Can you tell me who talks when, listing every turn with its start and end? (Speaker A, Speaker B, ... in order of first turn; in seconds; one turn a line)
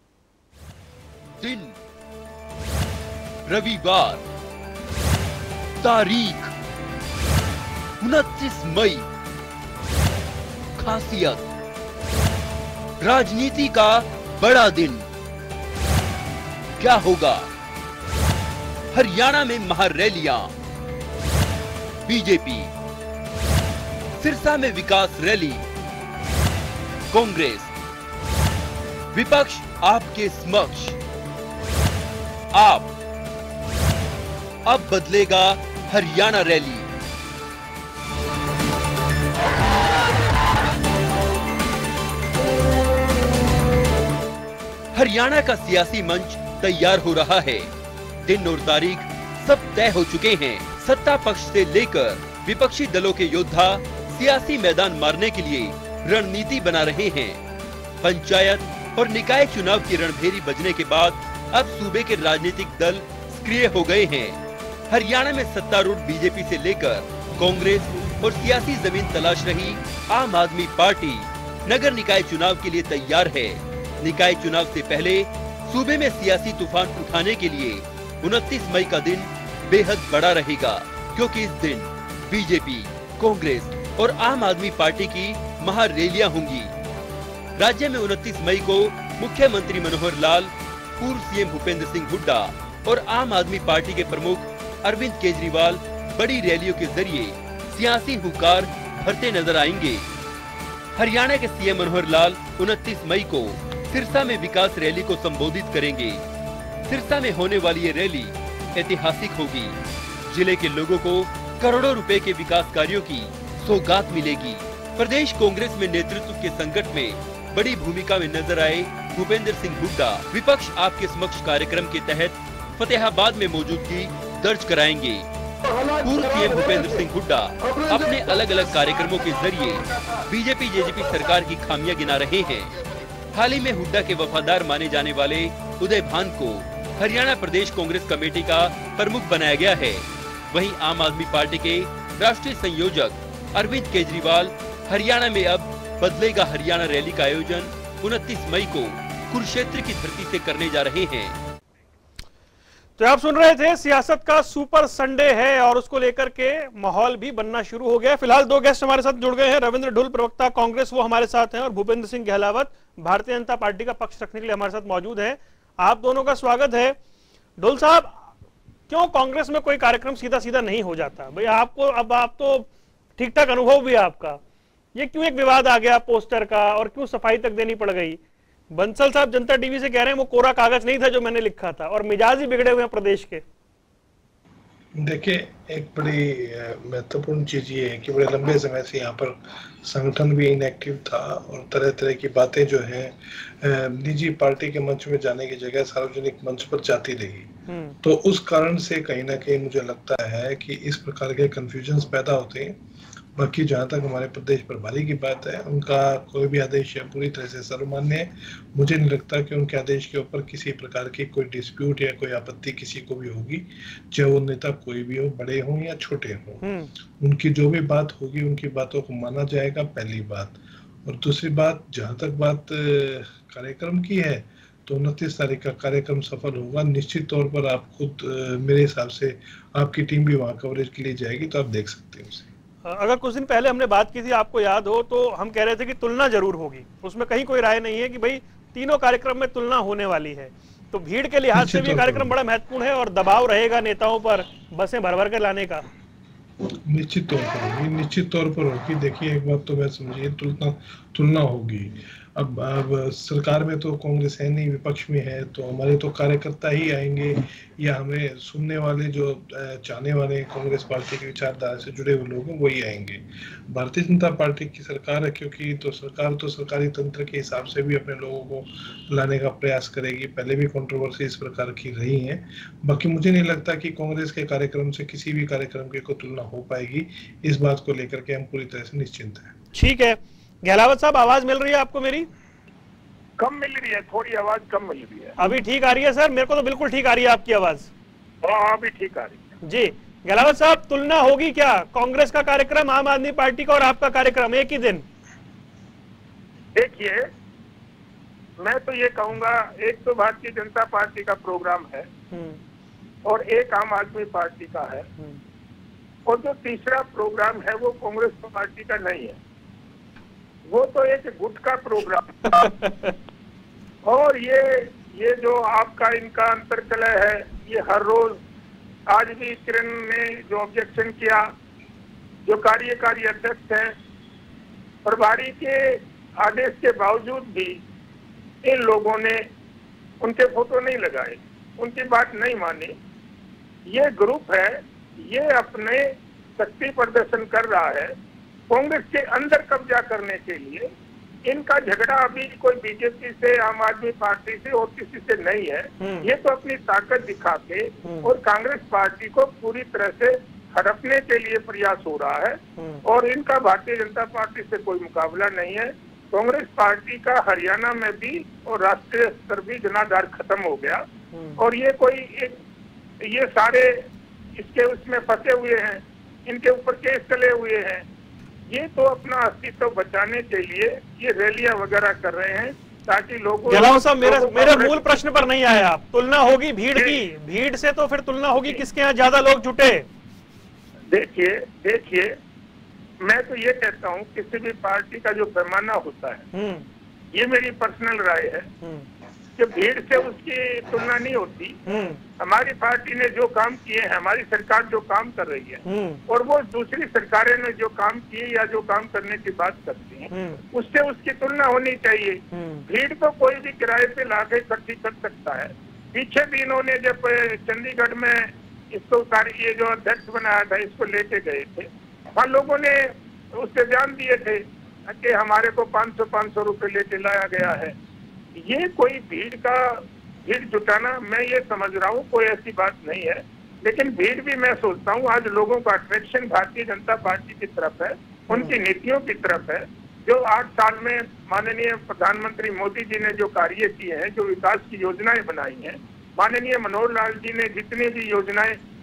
Speaker A: 1.4-1.8
Speaker A: 3.5-4.2
Speaker A: 5.8-6.5
Speaker A: 8.0-9.1
Speaker A: 10.8-11.5
Speaker A: 13.0-15.1
Speaker A: 16.8-17.5
Speaker A: 18.9-20.5
Speaker A: 22.0-22.7
Speaker A: 24.2-25.6
Speaker A: 27.1-27.7
Speaker A: 29.1-31.0
Speaker A: 32.5-32.9
Speaker A: 34.6-36.9
Speaker A: 44.9-47.7
Speaker A: 48.2-57.4
Speaker A: 58.0-86.7
Speaker A: 87.6-100.1
Speaker A: 100.9-106.2
Speaker A: 106.8-125.3
Speaker A: 126.0-132.8
Speaker A: 133.3-151.4
Speaker B: 153.0-166.9
Speaker B: 167.6-168.3
Speaker B: 168.9-174.4
Speaker B: 174.9-178.2
Speaker B: 178.7-183.4
Speaker C: 185.0-202.8
Speaker B: 197.7-198.0
Speaker C: 203.3-216.6
Speaker B: 216.6-216.9
Speaker C: 217.2-232.5
Speaker B: 232.8-245.8
Speaker C: 241.5-242.3
Speaker C: 246.8-279.5
Speaker B: 279.7-282.2
Speaker D: 283.4-285.4
Speaker B: 285.4-287.9
Speaker D: 288.4-289.4
Speaker B: 289.6-295.0
Speaker D: 296.7-297.2
Speaker D: 298.6-302.1
Speaker B: 302.3-302.6
Speaker D: 303.2-305.1
Speaker D: 306.2-309.4
Speaker D: 310.7-312.6
Speaker B: 312.5-313.1
Speaker D: 314.0-318.4
Speaker D: 319.1-321.5
Speaker D: 322.4-323.9
Speaker D: 325.0-327.8
Speaker D: 328.6-329.4
Speaker D: 330.2-332.9
Speaker D: 333.9-338.1
Speaker D: 338.7-340.9
Speaker D: 341.5-361.0
Speaker B: 346.0-346.3
Speaker B: 348.0-348.3
Speaker B: 352.8-353.0
Speaker B: 361.3-361.6
Speaker D: 361.6-362.6
Speaker D: 363.2-363.9
Speaker D: 364.6-368.0
Speaker D: 368.7-375.0
Speaker B: 373.7-380.0
Speaker D: 376.9-377.2
Speaker D: 381.1-382.3
Speaker D: 383.2-386.4
Speaker B: 386.5-386.9
Speaker D: 387.3-388.7
Speaker B: 388.8-389.1
Speaker D: 389.6-391.8
Speaker B: 391.9-392.2
Speaker D: 392.4-417.9
Speaker B: 395.8-396.2
Speaker B: 400.3-400.6
Speaker B: 402.5-402.8
Speaker D: 418.6-438.8
Speaker B: 428.5-428.7